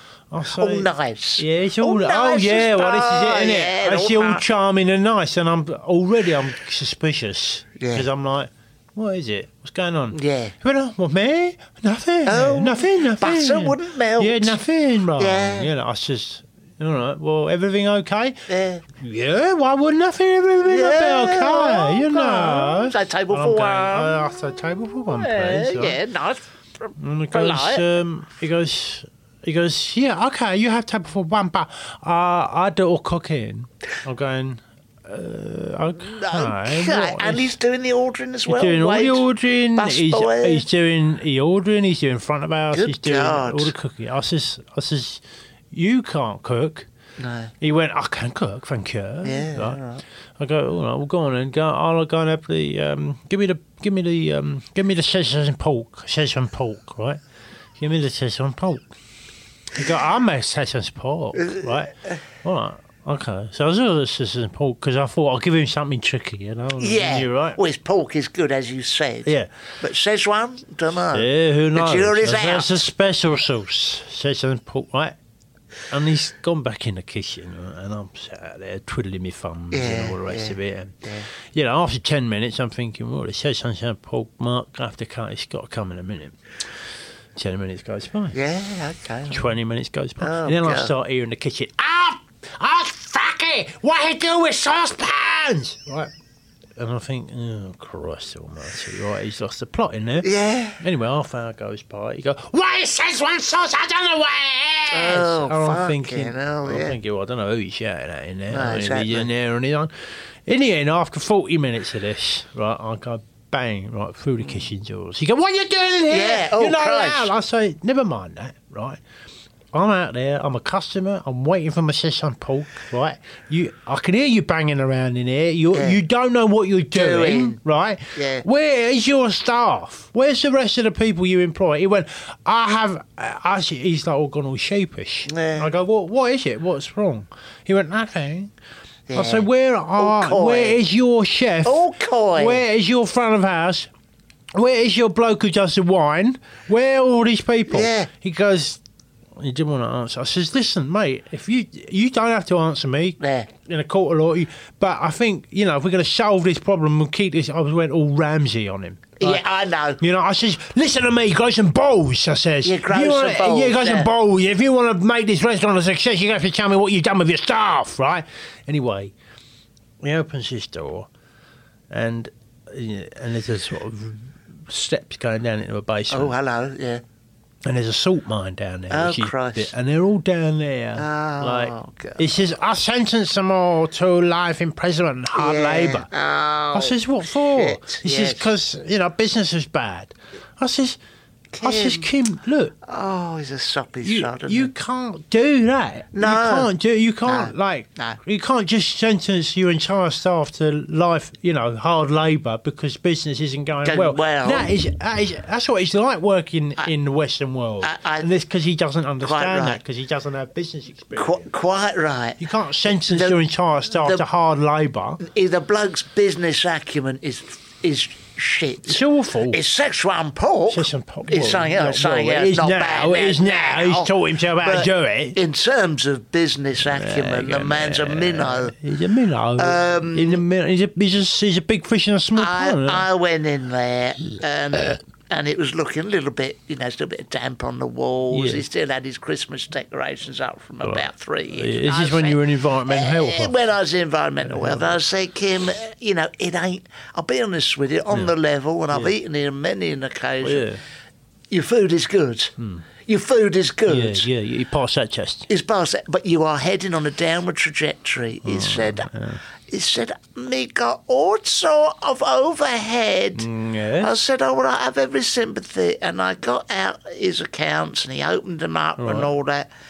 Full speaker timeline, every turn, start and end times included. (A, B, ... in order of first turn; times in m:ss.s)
0:00.3-0:18.4 A
0:00.6-0:04.4 B
0:07.8-0:08.1 B
0:10.1-0:10.6 B
0:12.3-0:14.6 B
0:15.2-0:15.7 B
0:18.5-0:18.8 B
0:19.0-0:26.0 A
0:20.7-0:24.2 B
0:25.1-0:27.8 B
0:27.0-0:37.5 A
0:36.0-0:40.6 B
0:38.5-0:46.9 A
0:42.7-0:43.7 B
0:47.2-0:47.5 B
0:47.6-0:49.8 A
0:49.2-0:50.0 B
0:50.4-0:57.2 A
0:57.8-0:58.9 A
0:59.8-1:01.9 A
1:01.4-1:02.2 B
1:02.4-1:07.6 A
1:06.8-1:12.8 B
1:11.1-1:15.2 A
1:15.9-1:21.0 A
1:19.7-1:21.3 B
1:21.5-1:26.4 A
1:27.4-1:28.4 A
1:28.3-1:29.5 B
1:29.3-1:36.1 A
1:30.2-1:30.9 B
1:36.8-1:40.3 A
1:40.2-1:40.8 B
1:40.8-1:49.9 A
1:44.9-1:47.0 B
1:48.5-1:49.3 B
1:50.5-1:59.0 A
1:56.1-1:57.3 B
1:59.7-2:18.5 A
2:05.7-2:06.0 B
2:06.9-2:07.6 B
2:08.2-2:08.4 B
2:15.3-2:15.7 B
2:19.1-2:19.5 B
2:19.1-2:23.9 A
2:20.0-2:20.8 B
2:21.6-2:22.6 B
2:24.6-2:28.8 A
2:27.7-2:28.1 B
2:29.4-2:39.4 A
2:33.2-2:33.5 B
2:39.2-2:40.0 B
2:40.0-2:49.1 A
2:42.6-2:44.1 B
2:50.0-2:51.1 A
2:51.9-2:56.3 A
2:56.1-2:57.0 B
2:57.6-3:06.1 A
2:58.9-2:59.7 B
3:01.0-3:02.3 B
3:05.4-3:07.0 B
3:06.7-3:11.0 A
3:07.5-3:08.5 B
3:11.5-3:12.1 B
3:11.6-3:12.7 A
3:12.9-3:14.7 B
3:14.0-3:31.5 A
3:16.1-3:16.7 B
3:17.3-3:18.2 B
3:23.8-3:24.7 B
3:27.8-3:28.3 B
3:29.2-3:29.8 B
3:31.2-3:33.4 B
3:32.4-3:35.2 A
3:34.0-3:34.2 B
3:35.2-3:48.8 B
3:38.9-3:39.6 A
3:40.7-3:45.4 A
3:46.8-3:53.0 A
3:49.6-3:50.4 B
3:52.4-4:10.7 B
3:58.3-3:58.6 A
4:00.8-4:03.5 A
4:04.4-4:05.0 A
4:10.4-4:10.8 A
4:11.5-4:12.5 B
4:12.6-4:12.9 A
4:13.1-4:14.3 B
4:13.9-4:15.5 A
4:15.5-4:19.1 B
4:18.4-4:19.4 A
4:19.7-4:23.5 B
4:23.4-4:24.1 A
4:24.0-4:29.7 B
4:29.0-4:29.3 A